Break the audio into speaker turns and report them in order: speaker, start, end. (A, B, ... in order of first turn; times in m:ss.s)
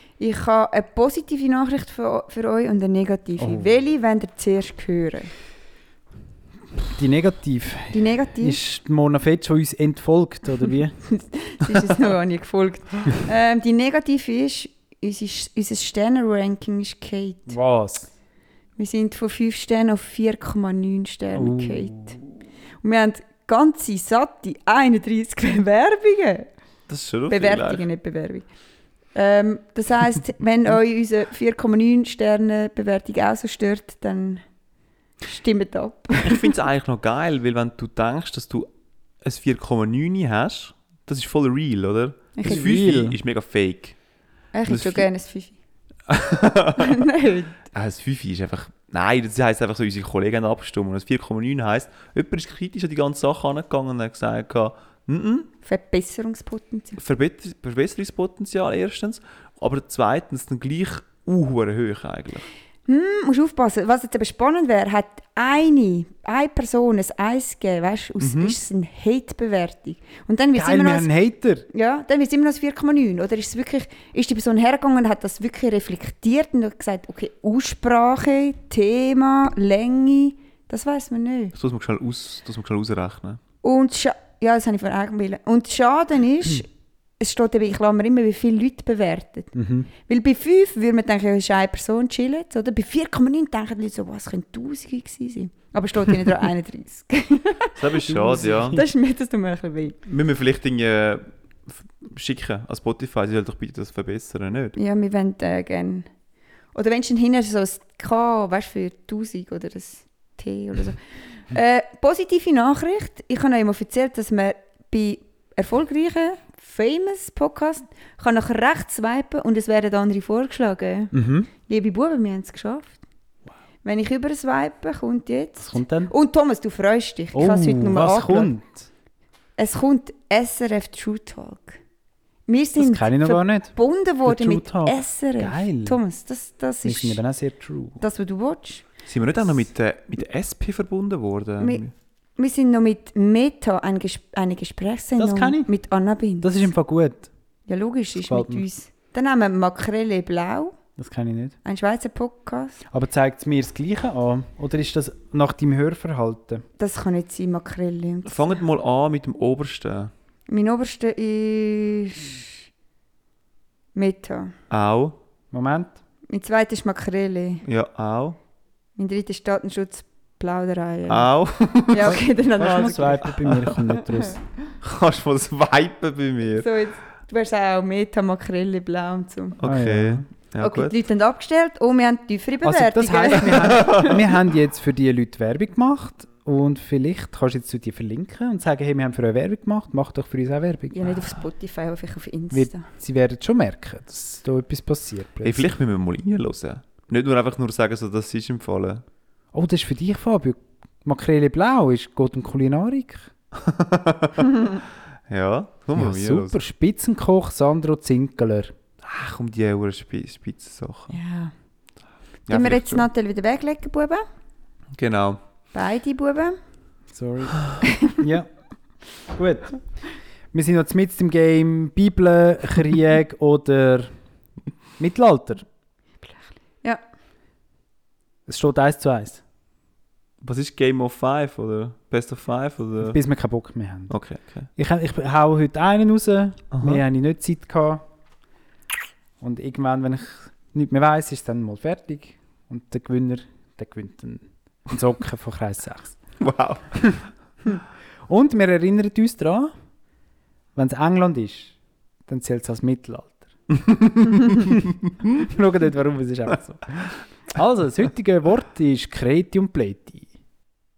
0:00.2-0:05.3 A
0:03.4-0:03.7 B
0:06.8-0:11.0 B
0:07.9-0:08.6 A
0:11.0-0:17.5 A
0:17.5-0:18.1 B
0:18.8-0:22.2 A
0:21.4-0:22.2 B
0:22.8-0:26.5 A
0:26.9-0:27.8 C
0:27.3-0:28.5 A
0:29.2-0:34.4 A
0:35.2-0:36.5 A
0:36.2-0:38.7 C
0:39.2-0:44.0 C
0:42.4-0:42.7 A
0:42.4-0:43.2 B
0:44.5-0:45.6 A
0:44.7-0:45.1 C
0:46.1-0:47.0 C
0:46.8-0:47.6 A
0:47.7-0:55.5 C
0:55.6-0:57.0 A
0:57.0-1:02.5 C
1:02.9-1:11.1 A
1:08.2-1:08.6 C
1:10.6-1:11.7 B
1:11.7-1:21.5 A
1:21.6-1:23.4 C
1:23.6-1:26.7 A
1:27.2-1:29.5 A
1:29.6-1:29.9 B
1:30.0-1:40.0 A
1:37.8-1:38.8 C
1:38.1-1:38.8 B
1:40.1-1:44.8 C
1:44.8-1:46.1 A
1:46.7-2:01.1 A
2:01.1-2:01.5 B
2:01.7-2:03.0 A
2:03.8-2:08.5 A
2:05.6-2:06.1 B
2:07.3-2:08.9 B
2:09.6-2:11.8 A
2:12.5-2:17.2 A
2:12.8-2:16.0 B
2:16.8-2:18.0 B
2:18.0-2:18.8 A
2:19.1-2:21.9 C
2:22.4-2:26.6 A
2:25.2-2:25.7 B
2:26.4-2:27.3 B
2:27.7-2:30.8 A
2:28.2-2:28.6 B
2:31.0-2:31.6 B
2:31.6-2:32.8 A
2:32.9-2:36.6 B
2:36.8-2:38.5 A
2:38.3-2:40.1 C
2:40.5-2:42.6 A
2:44.0-2:44.5 A
2:44.7-2:45.2 C
2:45.5-2:46.0 B
2:46.3-2:47.6 A
2:47.7-2:48.4 C
2:49.0-2:51.3 A
2:51.1-2:52.2 C
2:51.9-2:53.3 A
2:52.0-2:54.4 B
2:53.4-2:53.8 C
2:54.8-2:56.7 C
2:56.5-2:59.6 A
2:59.6-3:01.0 C
2:59.6-3:00.2 B
3:00.6-3:04.1 A
3:02.6-3:11.2 B
3:03.5-3:04.3 C
3:10.9-3:12.9 A
3:12.5-3:15.7 B
3:15.4-3:19.0 C
3:19.5-3:23.3 B
3:23.6-3:24.5 C
3:25.3-3:26.6 C
3:26.0-3:28.7 B
3:29.0-3:31.1 C
3:31.1-3:31.5 A
3:32.5-3:33.1 C
3:32.5-3:34.2 A
3:35.0-3:35.4 C
3:35.7-3:36.6 A
3:37.1-3:38.5 B
3:37.8-3:38.2 A
3:39.3-3:39.8 B
3:40.5-3:44.1 B
3:45.0-3:45.6 B
3:48.5-3:49.4 B
3:50.4-3:53.2 C
3:53.0-3:54.1 B
3:54.1-3:54.7 C
3:54.8-3:58.0 B
3:56.7-3:57.0 C
3:59.4-4:06.2 B
4:06.4-4:07.1 C
4:08.3-4:09.7 B
4:10.8-4:11.8 B
4:12.3-4:13.5 B
4:14.5-4:20.3 B